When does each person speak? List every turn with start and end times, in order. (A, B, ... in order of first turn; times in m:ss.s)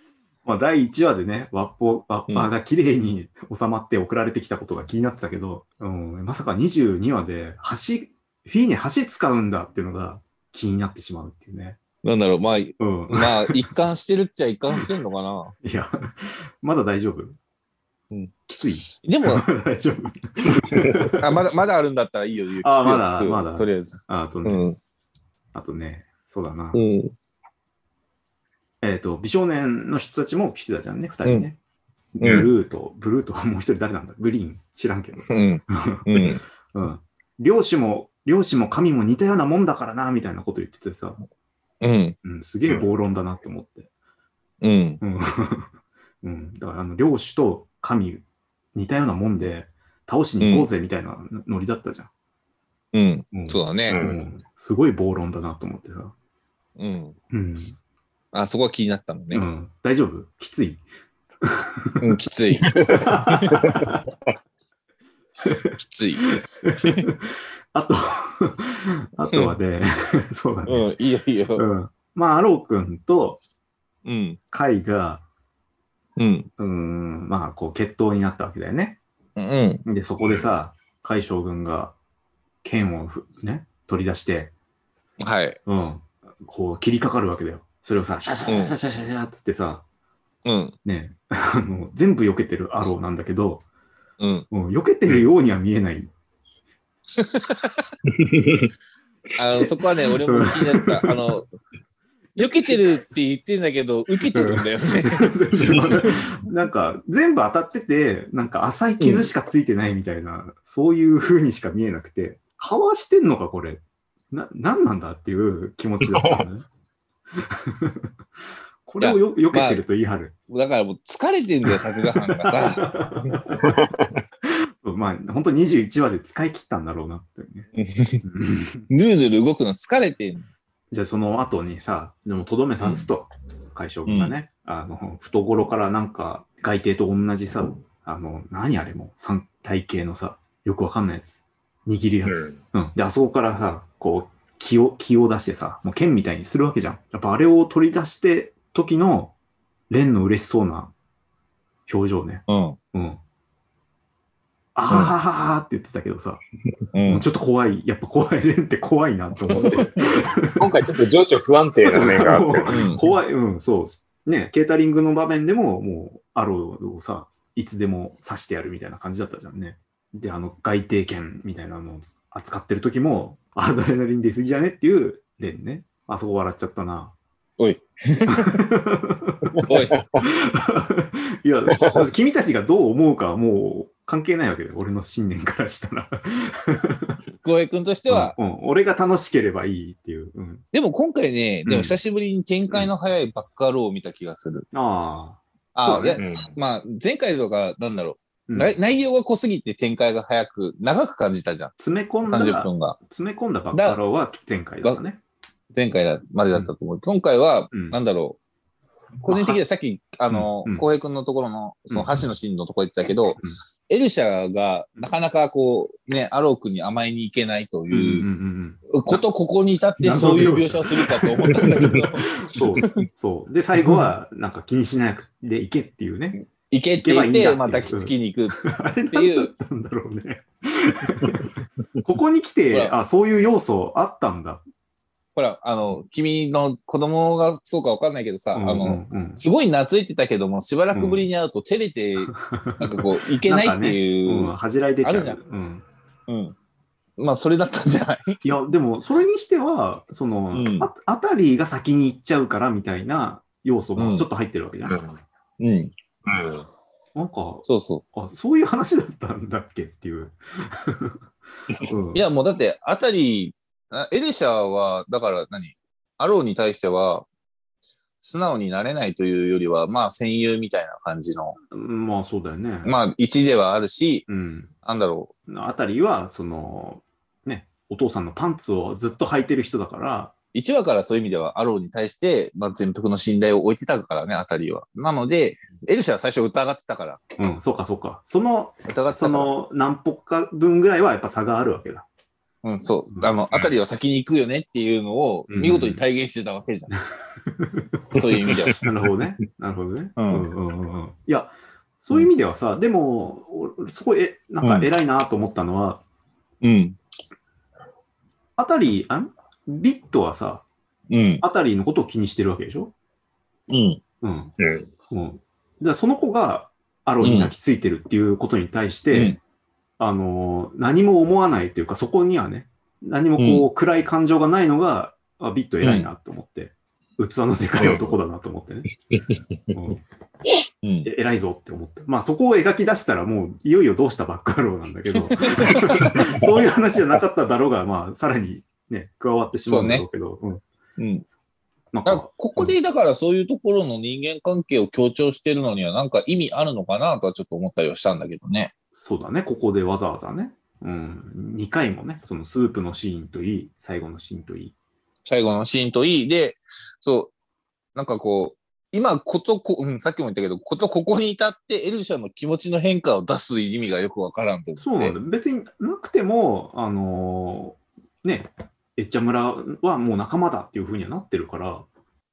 0:00.4-0:11.8 A
0:12.0-0:15.5 B
0:12.8-0:13.7 A
0:15.6-0:17.4 A
0:18.4-0:21.3 A
0:19.0-0:19.5 B
0:21.1-0:24.8 B
0:22.6-0:24.6 A
0:25.5-0:26.8 A
0:26.7-0:27.1 B
0:28.8-0:31.6 A
0:32.1-0:41.2 A
0:32.2-0:32.5 B
0:35.2-0:36.4 B
0:41.8-0:42.2 B
0:42.2-0:43.9 A
0:44.6-0:45.0 B
0:45.0-0:45.7 A
0:46.2-0:48.2 A
0:48.7-0:52.1 A
0:50.4-0:50.7 B
0:52.9-0:54.0 B
0:53.3-0:56.1 A
0:53.9-0:54.2 C
0:56.8-0:57.2 B
0:57.3-0:57.8 A
0:58.3-0:59.4 B
0:59.3-1:00.8 A
1:01.4-1:02.0 A
1:02.0-1:03.6 B
1:02.6-1:03.0 C
1:02.9-1:04.0 A
1:05.4-1:05.7 A
1:05.8-1:06.3 B
1:06.2-1:10.9 A
1:10.7-1:11.6 B
1:11.6-1:13.4 A
1:14.0-1:14.4 B
1:14.5-1:15.2 A
1:16.2-1:16.5 B
1:16.6-1:19.0 A
1:19.4-1:19.8 B
1:19.8-1:21.9 A
1:22.6-1:24.5 A
1:25.2-1:25.6 B
1:25.6-1:29.8 A
1:28.5-1:28.8 B
1:30.4-1:30.8 B
1:30.8-1:33.6 A
1:34.2-1:34.5 B
1:34.5-1:36.1 A
1:37.2-1:37.9 B
1:38.1-1:38.7 C
1:39.4-1:41.5 B
1:40.2-1:41.2 A
1:42.4-1:46.0 B
1:44.3-1:56.6 A
1:49.0-1:49.3 B
1:57.4-1:58.1 A
1:58.8-2:00.3 A
1:59.0-1:59.8 B
2:00.5-2:03.5 B
2:02.2-2:03.8 A
2:03.6-2:04.2 C
2:04.5-2:07.7 A
2:07.7-2:08.2 B
2:08.2-2:08.9 A
2:08.9-2:10.5 B
2:10.9-2:29.3 A
2:14.0-2:14.3 B
2:22.2-2:22.6 C
2:29.9-2:30.9 A
2:31.9-2:33.2 A
2:32.5-2:32.8 B
2:34.7-2:36.4 A
2:36.9-2:37.2 B
2:37.0-2:40.6 A
2:39.5-2:40.2 B
2:40.4-2:42.8 C
2:41.8-2:57.1 A
2:42.7-2:43.0 B
2:57.6-2:58.6 B
2:58.3-3:07.2 A
2:59.6-3:00.0 C
2:59.6-3:00.0 B
3:07.4-3:08.4 B
3:08.1-3:10.6 A
3:10.7-3:14.6 B
3:11.6-3:12.0 A
3:14.7-3:16.2 A
3:15.7-3:21.7 B
3:16.2-3:16.5 C
3:18.5-3:18.7 A
3:21.8-3:25.2 A
3:22.2-3:23.0 B
3:23.7-3:24.0 B
3:25.7-3:28.4 B
3:27.7-3:28.0 A
3:29.2-3:38.3 B
3:29.3-3:29.6 A
3:30.3-3:30.9 A
3:31.9-3:32.2 A
3:37.9-3:39.2 A
3:38.9-3:43.1 B
3:40.0-3:46.4 A
3:46.7-3:49.5 B
3:47.0-3:54.6 A
3:55.4-4:05.4 B
3:58.5-3:59.4 A
4:00.9-4:01.3 A
4:02.3-4:05.8 A
4:06.3-4:06.5 B
4:07.2-4:08.5 B
4:08.4-4:15.0 A
4:10.5-4:10.9 B
4:14.0-4:14.3 B
4:14.9-4:15.2 C
4:15.6-4:15.9 B
4:16.2-4:16.6 C
4:17.1-4:21.1 A
4:17.6-4:18.0 B
4:21.8-4:22.2 A
4:22.1-4:27.3 B
4:28.2-4:31.6 B
4:31.7-4:32.9 A
4:32.8-4:34.2 B
4:34.3-4:34.7 A
4:34.8-4:35.3 B
4:35.5-4:40.3 A
4:40.5-4:47.2 B
4:47.4-4:52.0 A
4:48.9-4:49.5 B
4:52.6-4:56.9 B
4:53.1-4:53.7 A
4:55.5-4:56.0 A
4:56.9-5:06.0 A
4:58.1-4:58.8 B
5:00.2-5:00.5 B
5:04.6-5:04.9 B
5:06.6-5:07.0 B
5:08.6-5:10.6 A
5:11.1-5:11.4 B
5:11.4-5:12.9 A
5:13.7-5:14.0 B
5:14.2-5:14.5 A
5:14.6-5:14.9 C
5:15.1-5:19.4 A
5:17.2-5:17.5 B
5:19.1-5:19.4 B
5:20.0-5:28.9 A
5:23.4-5:23.6 B
5:25.8-5:26.1 B
5:27.8-5:28.1 C
5:29.7-5:30.0 A
5:30.8-5:31.1 B
5:31.0-5:40.6 A
5:35.4-5:36.2 B
5:39.7-5:40.0 B
5:41.0-5:41.2 B
5:41.9-5:42.7 A
5:42.0-5:48.7 B
5:48.9-5:54.7 A
5:55.2-5:57.3 B
5:57.9-6:05.1 B
6:04.8-6:11.8 A